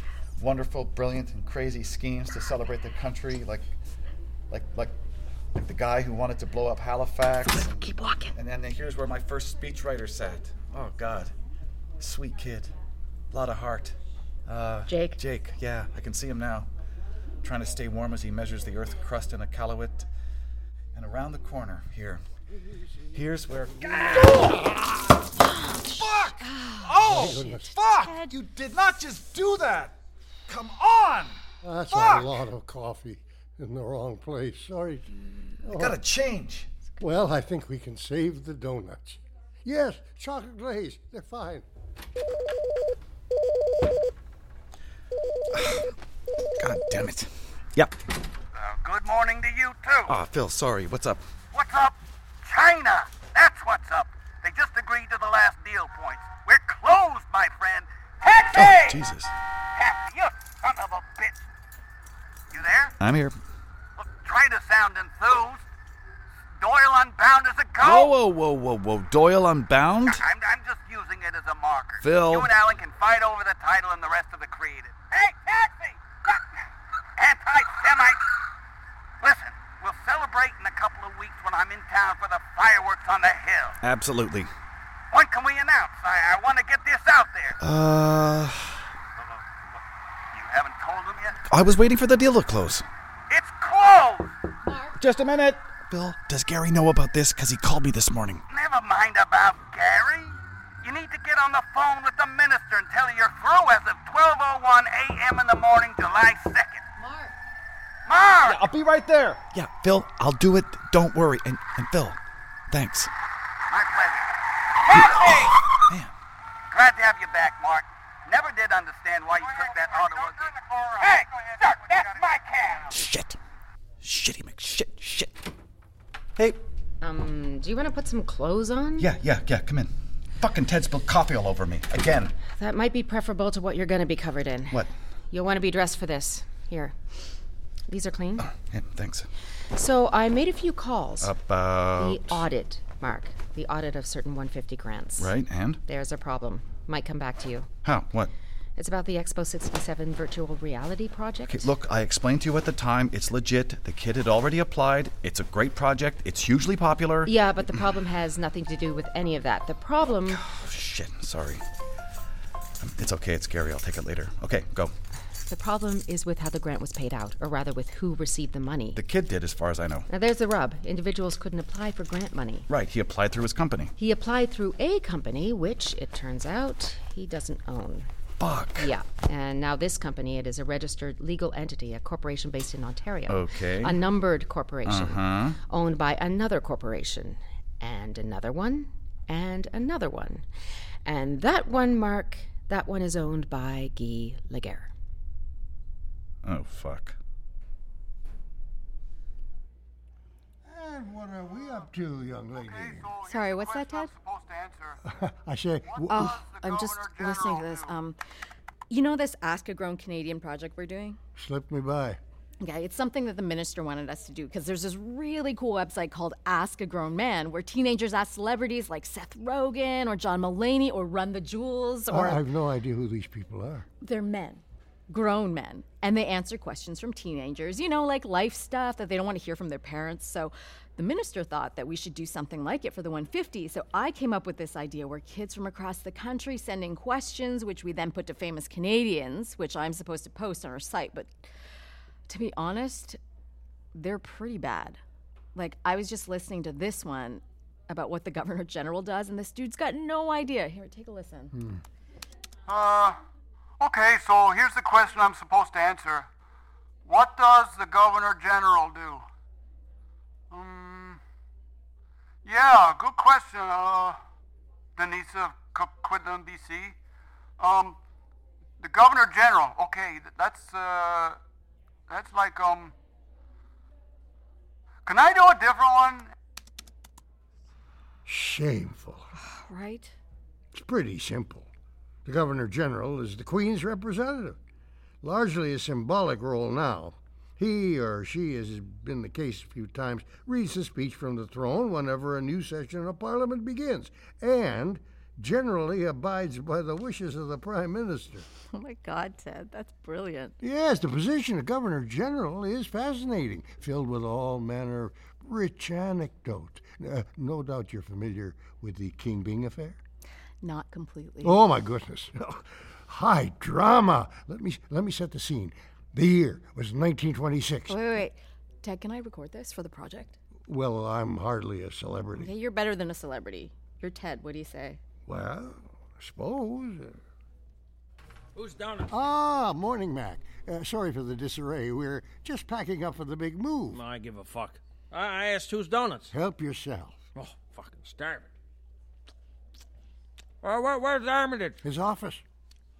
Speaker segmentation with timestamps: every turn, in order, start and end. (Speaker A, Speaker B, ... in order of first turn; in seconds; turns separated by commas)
Speaker A: 0.4-3.7, Speaker A: 4.5-4.9, Speaker A: 5.5-7.8, Speaker B: 7.5-8.3, Speaker A: 8.3-11.3, Speaker A: 12.0-12.7, Speaker A: 13.3-16.7, Speaker B: 14.9-15.2, Speaker A: 17.4-20.1, Speaker A: 20.9-22.2, Speaker A: 23.1-24.5, Speaker B: 25.4-28.3, Speaker A: 25.9-29.9, Speaker C: 27.1-27.7, Speaker A: 30.5-31.4, Speaker C: 31.6-36.0, Speaker A: 31.9-32.3, Speaker A: 35.7-36.7, Speaker C: 37.0-41.6, Speaker A: 45.5-45.9, Speaker A: 46.6-47.9, Speaker D: 48.5-50.1, Speaker A: 50.1-51.2, Speaker D: 51.5-59.0, Speaker A: 58.5-59.3, Speaker D: 59.8-61.4, Speaker D: 62.5-62.9, Speaker A: 63.0-63.4, Speaker D: 64.0-65.6, Speaker D: 66.6-68.1, Speaker A: 67.8-70.2, Speaker D: 70.1-76.0, Speaker A: 72.0-72.5, Speaker D: 77.2-78.2, Speaker D: 79.2-83.8, Speaker A: 83.8-84.5, Speaker D: 85.1-87.5, Speaker A: 87.6-88.9, Speaker D: 90.3-91.4, Speaker A: 91.5-92.9, Speaker D: 93.3-94.3, Speaker E: 94.6-95.0, Speaker A: 95.0-98.4, Speaker D: 98.5-106.8, Speaker E: 107.0-107.3, Speaker D: 108.0-108.6, Speaker A: 108.5-112.2, Speaker A: 112.7-113.1, Speaker D: 113.7-114.4, Speaker D: 115.0-115.5, Speaker A: 115.8-116.1, Speaker D: 116.7-122.8, Speaker A: 122.9-123.4, Speaker A: 124.0-125.3, Speaker E: 127.0-129.1, Speaker A: 129.0-132.3, Speaker E: 132.5-136.9, Speaker E: 137.9-138.5, Speaker A: 138.5-139.3, Speaker E: 139.7-141.3, Speaker A: 141.2-142.4, Speaker E: 142.0-145.3, Speaker A: 145.2-145.8, Speaker E: 145.8-147.7, Speaker A: 147.8-148.3, Speaker E: 148.8-151.7, Speaker A: 151.5-157.3, Speaker E: 157.2-160.4, Speaker A: 160.3-161.6, Speaker A: 162.8-164.9, Speaker E: 165.4-169.0, Speaker A: 168.9-170.1, Speaker E: 170.1-172.7, Speaker A: 172.7-173.9, Speaker E: 174.0-178.1, Speaker A: 178.4-178.9, Speaker E: 178.8-190.4, Speaker A: 183.3-184.0, Speaker A: 184.8-185.6, Speaker E: 191.0-194.9, Speaker A: 196.4-197.2, Speaker C: 200.7-203.1, Speaker D: 202.6-205.0, Speaker B: 203.2-204.1, Speaker C: 205.0-206.4, Speaker B: 206.1-208.2, Speaker D: 206.4-207.9, Speaker B: 208.9-211.2, Speaker C: 211.3-212.2, Speaker B: 212.6-222.4, Speaker C: 222.1-223.8, Speaker B: 224.0-241.3, Speaker B: 242.3-243.2, Speaker B: 243.9-245.0, Speaker B: 245.5-251.5, Speaker D: 252.7-253.2, Speaker D: 253.8-256.3, Speaker D: 257.1-259.2, Speaker D: 260.5-261.2, Speaker D: 262.4-264.2, Speaker D: 265.0-266.9, Speaker D: 267.6-268.0, Speaker D: 268.8-271.4, Speaker D: 272.1-272.9, Speaker D: 275.1-276.3, Speaker C: 278.2-279.3, Speaker B: 279.4-280.1, Speaker C: 280.7-281.7, Speaker C: 282.2-284.6, Speaker C: 285.2-298.4, Speaker B: 298.7-300.5, Speaker C: 300.6-310.0, Speaker B: 310.6-311.6, Speaker C: 311.4-318.0, Speaker B: 317.9-320.3, Speaker C: 320.7-322.6, Speaker B: 322.4-325.0, Speaker C: 325.3-327.2, Speaker F: 328.5-329.1, Speaker C: 329.1-334.0, Speaker F: 333.9-336.3, Speaker C: 336.3-337.1, Speaker F: 337.3-338.5, Speaker F: 340.6-341.8, Speaker C: 341.8-342.4